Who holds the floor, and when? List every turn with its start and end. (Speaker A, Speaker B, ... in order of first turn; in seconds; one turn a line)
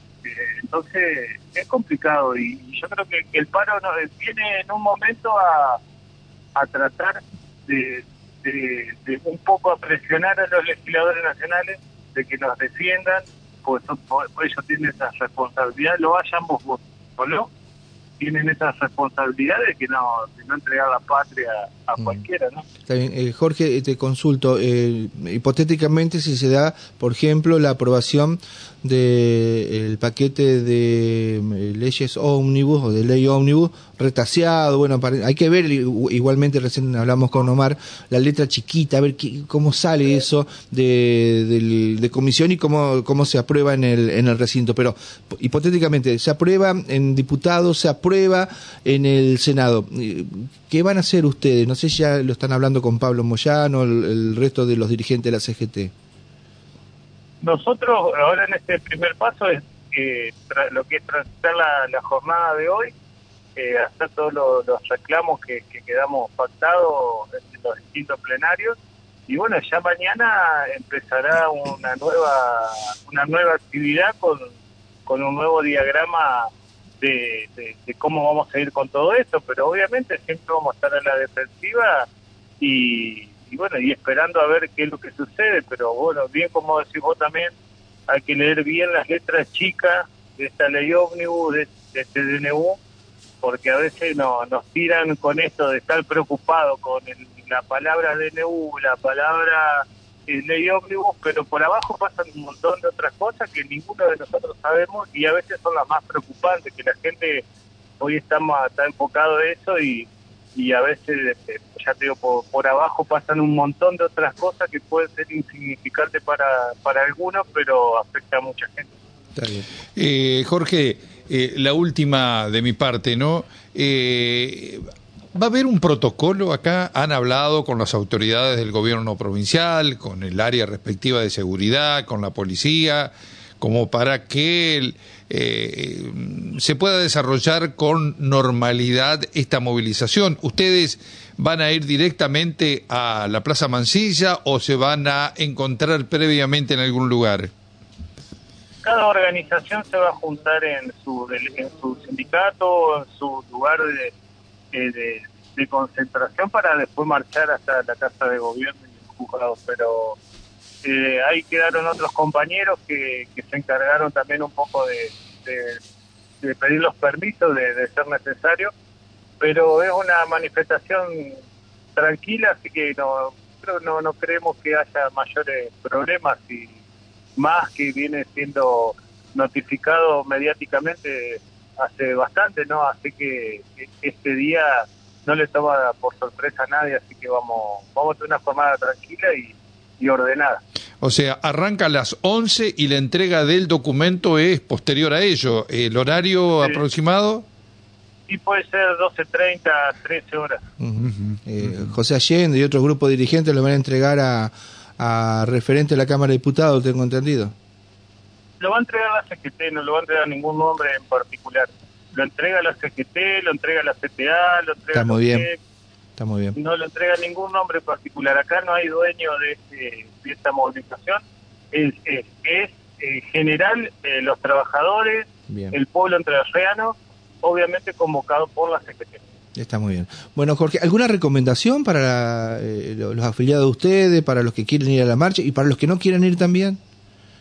Speaker A: 0.2-5.8
Speaker A: 6.5-17.5
Speaker A: 18.2-22.6
Speaker B: 22.9-55.9
Speaker A: 57.4-62.9
Speaker A: 63.5-68.8
Speaker A: 69.3-74.5
Speaker A: 75.1-82.0
Speaker A: 82.6-87.5
Speaker A: 88.1-92.8
Speaker A: 93.4-107.4
Speaker A: 108.0-118.9
Speaker B: 119.4-119.7
Speaker C: 120.0-147.5
Speaker A: 148.8-154.1
Speaker A: 154.7-160.2
Speaker A: 160.8-165.8
Speaker A: 166.4-168.7
Speaker A: 169.4-171.4
Speaker A: 171.9-176.8
Speaker A: 177.4-190.6
Speaker C: 191.0-197.4
Speaker A: 198.3-200.6
Speaker B: 200.8-207.5
Speaker C: 201.1-201.4
Speaker A: 208.6-215.6
Speaker B: 214.9-215.5
Speaker B: 216.2-216.6
Speaker A: 216.6-229.2
Speaker B: 225.5-225.7
Speaker B: 229.6-236.8